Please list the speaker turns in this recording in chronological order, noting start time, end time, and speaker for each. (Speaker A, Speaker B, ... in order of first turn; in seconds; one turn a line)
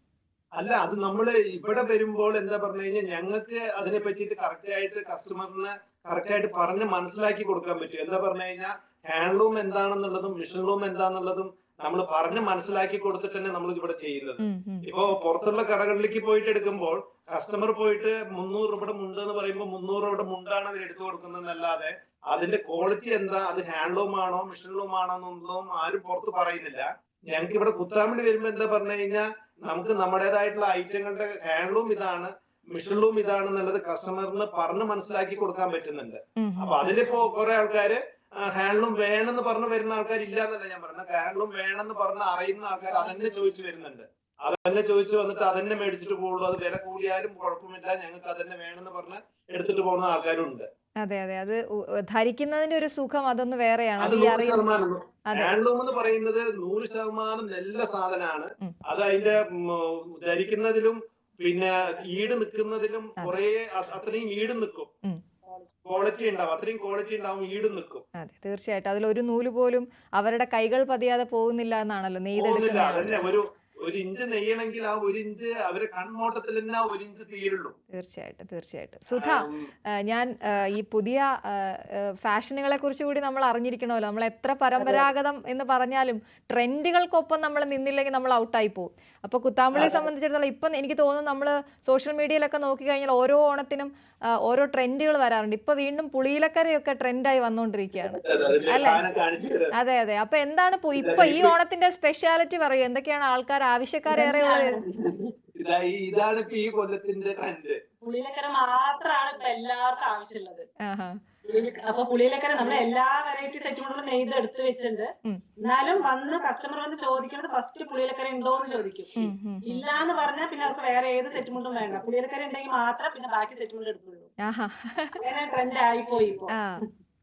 Speaker A: 0.6-50.7
Speaker B: 14.4-15.1
Speaker B: 36.4-36.8
Speaker B: 51.0-54.7
Speaker A: 54.0-64.9
Speaker B: 55.3-55.5
Speaker A: 65.8-68.0
Speaker B: 68.2-73.2
Speaker A: 72.3-77.7
Speaker B: 77.9-93.9
Speaker A: 79.1-79.7
Speaker A: 89.7-90.0
Speaker B: 94.4-99.0
Speaker A: 98.2-99.7
Speaker B: 99.7-104.8
Speaker A: 101.0-101.5
Speaker C: 104.1-105.1
Speaker A: 105.5-107.8
Speaker C: 108.0-110.7
Speaker B: 110.8-111.2
Speaker C: 111.5-119.1
Speaker B: 119.2-119.9
Speaker C: 119.6-124.3
Speaker B: 124.4-125.2
Speaker C: 125.2-126.5
Speaker B: 126.5-126.8